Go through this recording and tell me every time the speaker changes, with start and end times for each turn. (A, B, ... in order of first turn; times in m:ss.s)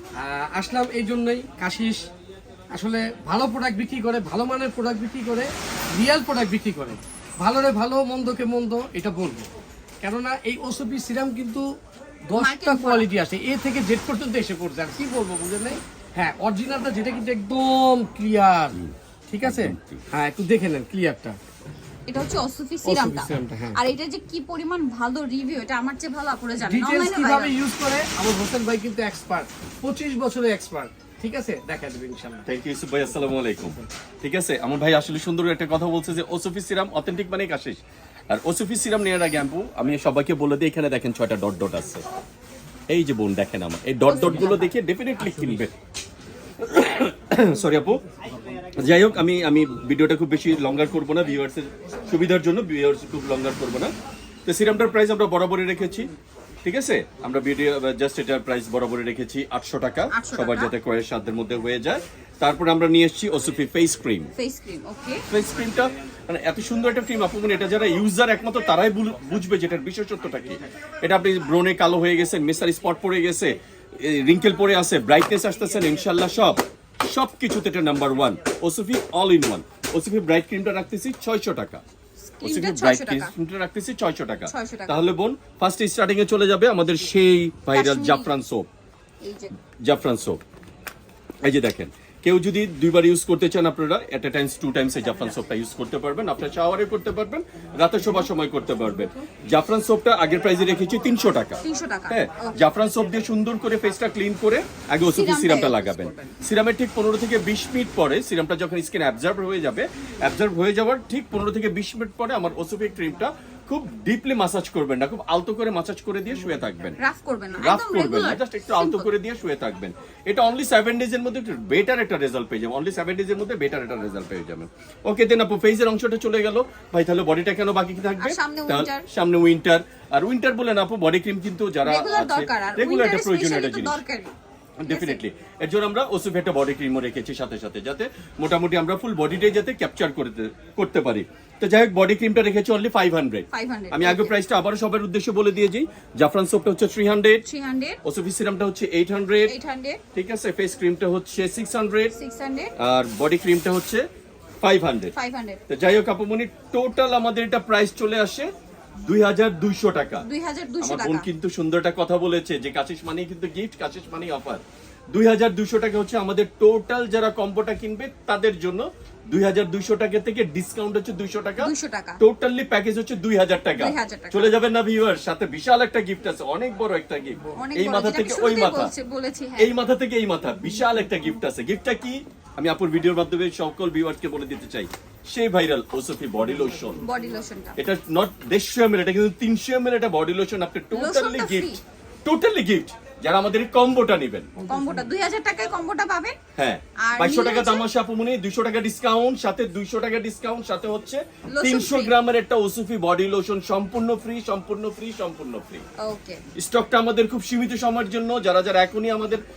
0:00.2-0:02.1 A
0:02.7-0:09.5 A
0:10.0-0:11.7 A
0:12.3-0:21.4 A
0:12.4-0:13.1 B
0:19.4-0:20.0 C
0:22.1-0:27.6 B
0:22.8-0:23.8 A
0:26.7-0:32.4 A
0:32.5-0:42.0 C
0:42.9-0:45.7 C
0:44.1-0:44.7 B
0:46.6-0:48.0 C
0:48.8-0:53.9 C
0:54.5-0:56.1 C
0:56.6-1:04.3 C
1:00.1-1:00.7 B
1:04.4-1:05.2 B
1:05.3-1:21.8 C
1:22.4-1:23.3 B
1:22.4-1:28.7 C
1:24.5-1:25.0 B
1:27.7-1:28.3 B
1:29.2-1:29.5 B
1:29.8-1:30.4 C
1:31.4-1:41.6 C
1:41.6-1:42.6 B
1:42.1-1:57.0 C
1:45.1-1:46.4 B
1:57.0-1:59.1 B
1:57.6-2:14.0 C
2:08.2-2:09.1 B
2:11.8-2:14.3 B
2:14.8-2:27.4 C
2:14.9-2:15.2 B
2:23.5-2:24.4 B
2:27.4-2:28.0 B
2:28.0-2:29.5 C
2:29.5-2:30.0 B
2:30.1-2:32.1 C
2:32.2-2:32.7 B
2:32.8-2:34.1 C
2:34.6-2:35.1 C
2:35.2-2:35.6 B
2:35.7-2:38.5 C
2:39.0-2:40.2 C
2:40.2-2:41.3 B
2:40.8-2:58.9 C
2:51.6-2:52.2 B
2:53.8-2:54.6 B
2:57.6-2:59.7 B
2:59.6-3:07.0 C
3:07.0-3:07.8 B
3:07.8-3:14.5 C
3:10.9-3:11.8 B
3:14.6-3:16.4 B
3:16.6-3:25.8 C
3:17.1-3:17.9 B
3:21.5-3:22.1 B
3:26.0-3:26.4 B
3:26.6-3:29.4 C